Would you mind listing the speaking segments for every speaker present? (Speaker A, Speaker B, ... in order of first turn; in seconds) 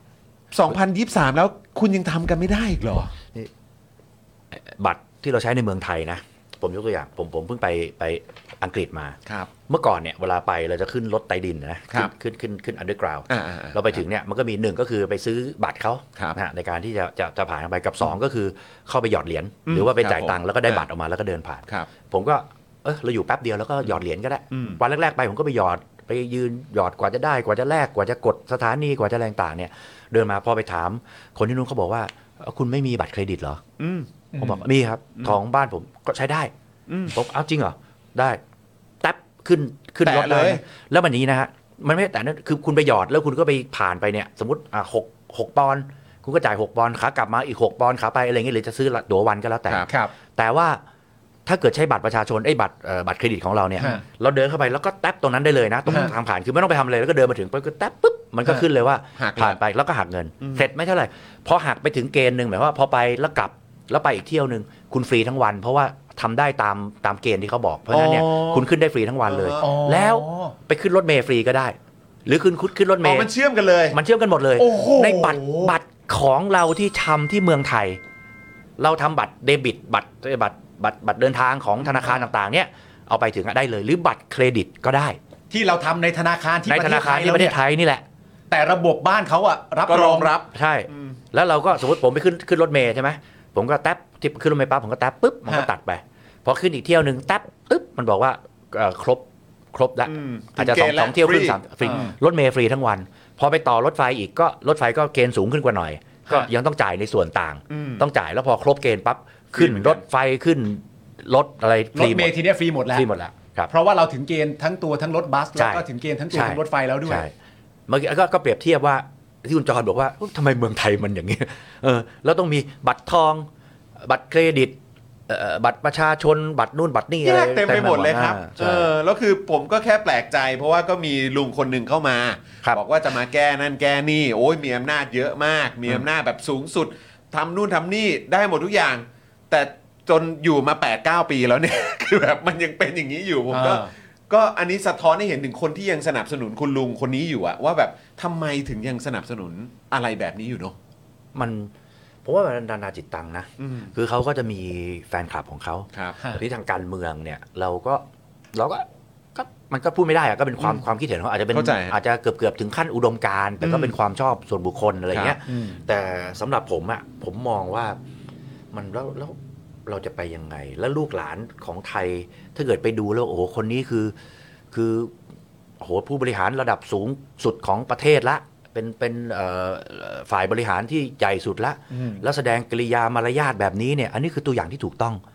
Speaker A: 0.5-3.1, 13.3-14.0, 19.6-20.9, 24.5-24.8, 33.8-34.1, 36.9-37.1, 40.0-40.6, 59.2-59.6, 60.4-60.7, 67.9-68.7, 69.3-69.7, 73.0-74.0, 89.9-91.2, 100.0-102.1, 107.7-108.0, 109.5-110.0, 127.2-150.8, 153.6-153.9, 161.5-161.9, 163.6-163.9
Speaker B: 4.5-33.6, 34.4-36.5, 37.1-38.4, 39.0-50.8, 51.5-73.3, 73.9-78.0, 78.8-85.2, 86.7-88.0, 90.5-112.3, 112.9-113.7, 115.5-117.3, 117.9-123.5, 124.0-124.8, 125.3-128.9, 151.3-151.7, 152.2-168.0, 168.7-174.1, 174.7-175.2, 175.8-185.2
Speaker C: 69.6-70.5, 74.6-75.7, 85.5-87.5, 88.5-90.3, 101.8-102.1, 111.9-113.1, 113.7-117.2, 143.5-143.9, 165.5-165.8, 181.9-182.2